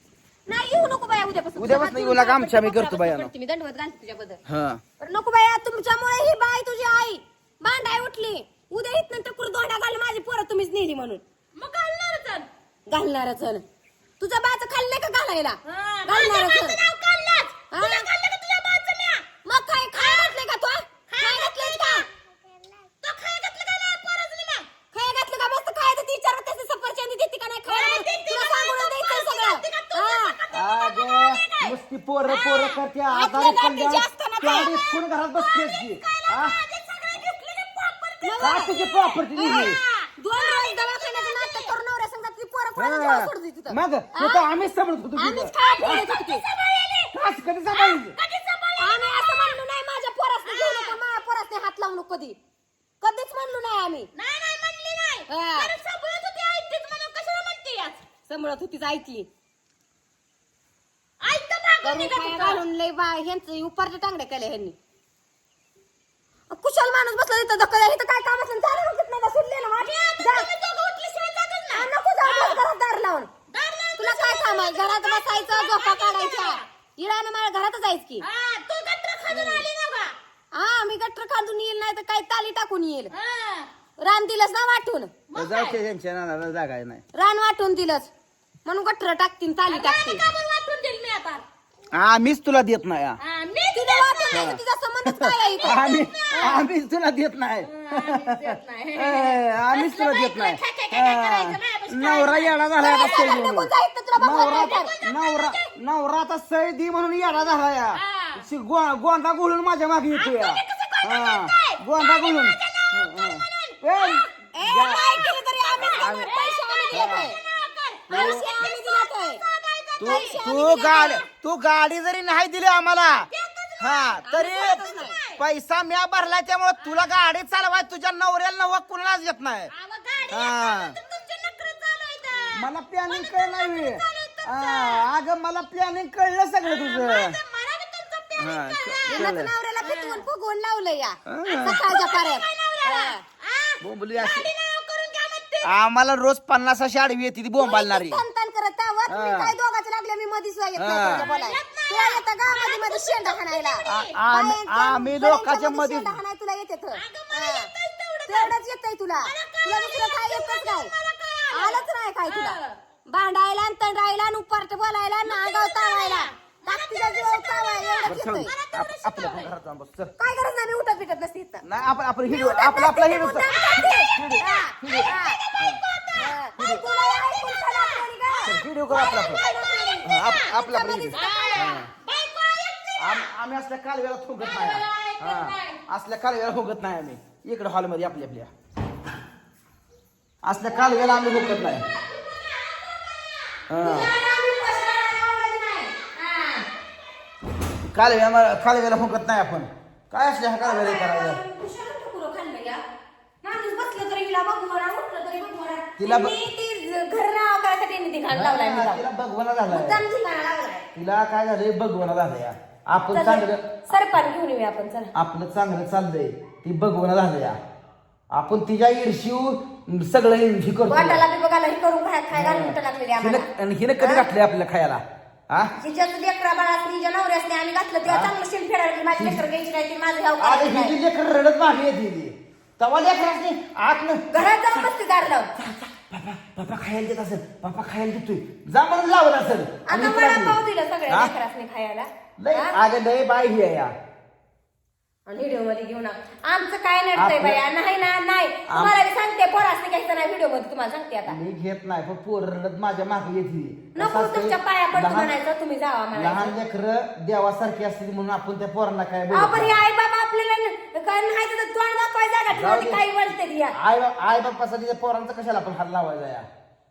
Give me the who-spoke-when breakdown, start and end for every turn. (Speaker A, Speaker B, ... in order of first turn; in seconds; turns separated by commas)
Speaker A: 0.5-4.4, Speaker B: 1.6-3.3, Speaker C: 1.7-3.0, Speaker B: 4.5-4.8, Speaker A: 5.0-11.2, Speaker C: 11.6-12.5, Speaker A: 12.9-13.6, Speaker A: 14.2-16.8, Speaker C: 15.6-19.2, Speaker A: 17.7-18.1, Speaker A: 19.4-22.1, Speaker C: 19.9-20.3, Speaker C: 21.1-22.1, Speaker C: 23.0-24.7, Speaker A: 24.9-30.4, Speaker C: 27.6-31.7, Speaker B: 30.5-36.6, Speaker C: 32.2-32.8, Speaker A: 33.1-34.7, Speaker C: 35.4-41.8, Speaker A: 38.2-38.7, Speaker B: 38.4-39.8, Speaker A: 40.2-44.5, Speaker B: 42.8-46.0, Speaker A: 45.1-46.4, Speaker C: 45.6-47.1, Speaker B: 47.1-48.1, Speaker C: 47.6-49.6, Speaker A: 48.8-52.4, Speaker C: 50.4-51.0, Speaker A: 53.0-54.1, Speaker C: 54.1-58.0, Speaker A: 55.3-55.7, Speaker A: 58.3-59.3, Speaker C: 61.2-62.6, Speaker A: 61.8-64.8, Speaker A: 66.5-70.5, Speaker C: 69.8-72.6, Speaker A: 71.7-73.3, Speaker C: 73.5-76.6, Speaker A: 74.0-78.2, Speaker C: 78.2-80.2, Speaker A: 79.3-79.7, Speaker A: 80.5-83.1, Speaker C: 83.1-83.7, Speaker A: 84.0-85.1, Speaker C: 85.3-85.8, Speaker B: 85.3-87.0, Speaker A: 87.1-88.1, Speaker A: 88.6-90.2, Speaker C: 89.7-91.4, Speaker B: 91.9-93.2, Speaker C: 93.2-94.5, Speaker A: 93.7-96.6, Speaker B: 94.3-94.6, Speaker B: 95.1-116.4, Speaker C: 97.7-103.4, Speaker A: 102.8-104.9, Speaker C: 104.3-105.1, Speaker C: 107.5-108.4, Speaker C: 110.1-114.3, Speaker A: 114.5-117.4, Speaker C: 115.9-121.2, Speaker B: 116.9-117.3, Speaker A: 118.1-119.4, Speaker B: 118.1-118.6, Speaker A: 120.0-121.2, Speaker B: 120.0-129.7, Speaker C: 123.3-125.4, Speaker A: 124.2-125.2, Speaker C: 129.7-135.1, Speaker B: 130.3-130.9, Speaker B: 132.5-137.4, Speaker C: 136.6-140.3, Speaker B: 138.4-139.5, Speaker A: 139.1-143.2, Speaker B: 141.3-141.8, Speaker C: 141.5-145.8, Speaker B: 143.8-144.5, Speaker B: 145.6-148.2, Speaker A: 147.6-157.7, Speaker B: 149.1-149.5, Speaker B: 150.8-151.3, Speaker C: 151.0-154.2, Speaker B: 153.8-156.2, Speaker C: 156.9-158.6, Speaker A: 158.3-160.9, Speaker C: 159.2-162.8, Speaker A: 161.5-168.5, Speaker C: 165.2-169.5, Speaker B: 168.1-170.1, Speaker A: 170.2-171.6, Speaker B: 171.6-175.8, Speaker A: 172.3-175.4, Speaker C: 175.0-176.3, Speaker A: 176.1-181.8, Speaker B: 176.6-176.8, Speaker C: 177.7-178.0, Speaker B: 178.4-179.4, Speaker C: 179.8-180.4, Speaker B: 180.0-181.9, Speaker C: 181.1-183.3, Speaker B: 183.0-188.5, Speaker C: 184.4-185.8, Speaker B: 190.4-191.8, Speaker C: 191.1-193.6, Speaker B: 193.7-194.1, Speaker A: 193.8-196.7, Speaker B: 197.9-201.4, Speaker A: 200.6-202.8, Speaker A: 203.4-209.0, Speaker B: 206.0-206.3, Speaker B: 208.3-210.0, Speaker A: 209.7-210.9, Speaker B: 210.9-214.0, Speaker A: 213.1-215.1, Speaker B: 215.1-217.6, Speaker B: 218.3-221.2, Speaker A: 220.9-223.5, Speaker B: 222.3-225.7, Speaker A: 224.0-224.3, Speaker A: 225.8-230.9, Speaker B: 228.1-228.3, Speaker B: 229.2-229.4, Speaker B: 230.4-234.9, Speaker A: 234.3-235.5, Speaker B: 235.6-241.3, Speaker A: 239.8-242.8, Speaker B: 242.4-243.9, Speaker A: 245.2-251.4, Speaker B: 247.1-247.6, Speaker B: 248.7-249.0, Speaker B: 251.2-255.3, Speaker A: 253.9-256.6, Speaker B: 256.1-259.8, Speaker A: 259.3-263.8, Speaker B: 262.5-263.1, Speaker B: 263.8-266.5